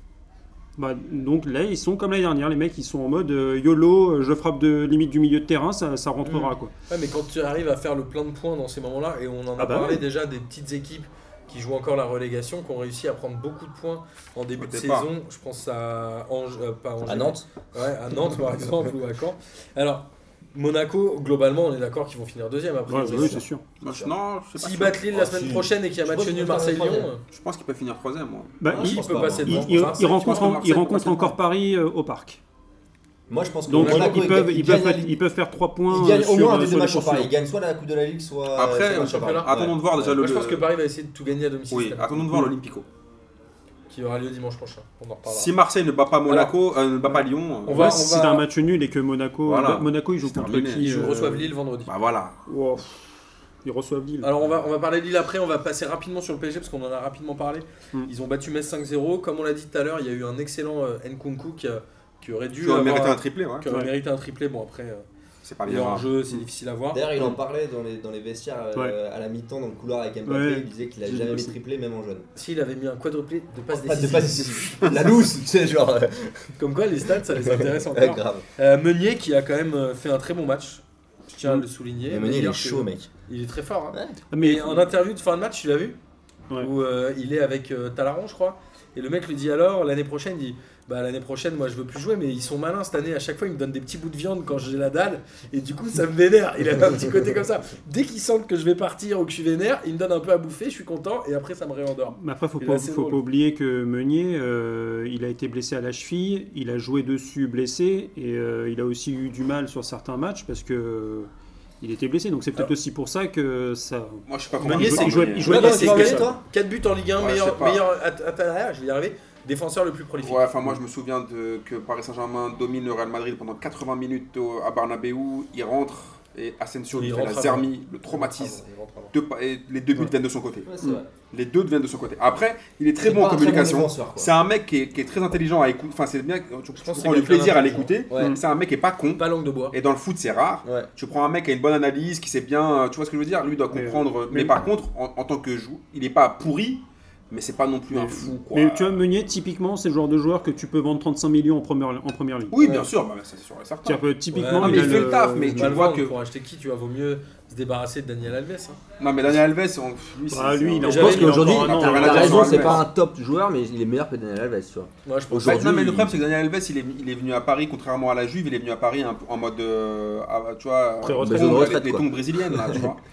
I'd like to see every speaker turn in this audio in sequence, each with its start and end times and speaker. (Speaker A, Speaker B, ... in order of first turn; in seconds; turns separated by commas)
Speaker A: 0.8-6.7, Speaker B: 6.2-23.4, Speaker A: 9.6-10.0, Speaker C: 14.6-15.1, Speaker D: 17.0-17.5, Speaker A: 22.9-23.6, Speaker D: 23.0-24.1, Speaker C: 23.8-25.0, Speaker B: 24.6-27.2, Speaker D: 25.1-27.1, Speaker C: 27.3-28.6, Speaker A: 28.6-32.4, Speaker D: 28.6-29.9, Speaker B: 28.7-30.6, Speaker C: 30.1-31.4, Speaker D: 33.3-35.2, Speaker A: 33.7-37.3, Speaker B: 33.7-34.3, Speaker D: 35.9-40.1, Speaker C: 38.5-40.7, Speaker B: 38.9-39.5, Speaker B: 40.0-42.4, Speaker C: 41.7-42.9, Speaker B: 43.9-45.5, Speaker C: 45.3-48.0, Speaker B: 46.3-46.5, Speaker B: 47.7-48.5, Speaker A: 47.7-51.5, Speaker C: 49.5-51.1, Speaker B: 50.8-51.9, Speaker C: 51.9-52.4, Speaker A: 52.5-53.1, Speaker A: 53.6-54.3, Speaker B: 54.2-65.1, Speaker C: 62.6-63.7, Speaker C: 65.4-66.1, Speaker B: 65.7-67.1, Speaker D: 66.9-72.3, Speaker A: 70.3-71.6, Speaker B: 72.3-74.9, Speaker D: 73.7-76.5, Speaker B: 76.6-86.0, Speaker D: 77.3-78.5, Speaker D: 82.1-83.1, Speaker D: 83.9-84.2, Speaker A: 84.3-84.9, Speaker B: 86.6-103.2, Speaker A: 102.1-111.3, Speaker A: 111.8-116.3, Speaker C: 114.3-115.7, Speaker B: 114.6-120.7, Speaker D: 115.4-116.4, Speaker C: 117.2-117.8, Speaker C: 120.2-130.7, Speaker B: 126.9-129.1, Speaker D: 130.7-131.1, Speaker C: 131.3-149.0, Speaker D: 133.0-134.3, Speaker B: 136.8-138.0, Speaker D: 138.1-138.4, Speaker B: 139.2-139.8, Speaker D: 140.6-140.9, Speaker A: 143.7-144.6, Speaker A: 147.9-152.6, Speaker C: 152.5-154.0, Speaker A: 153.9-155.7, Speaker B: 154.3-158.8, Speaker C: 154.6-156.2, Speaker C: 159.0-162.9, Speaker A: 160.3-162.9, Speaker B: 160.8-162.8, Speaker D: 160.8-166.2, Speaker B: 165.1-165.7, Speaker C: 165.4-173.0, Speaker A: 171.0-171.8, Speaker D: 171.2-172.9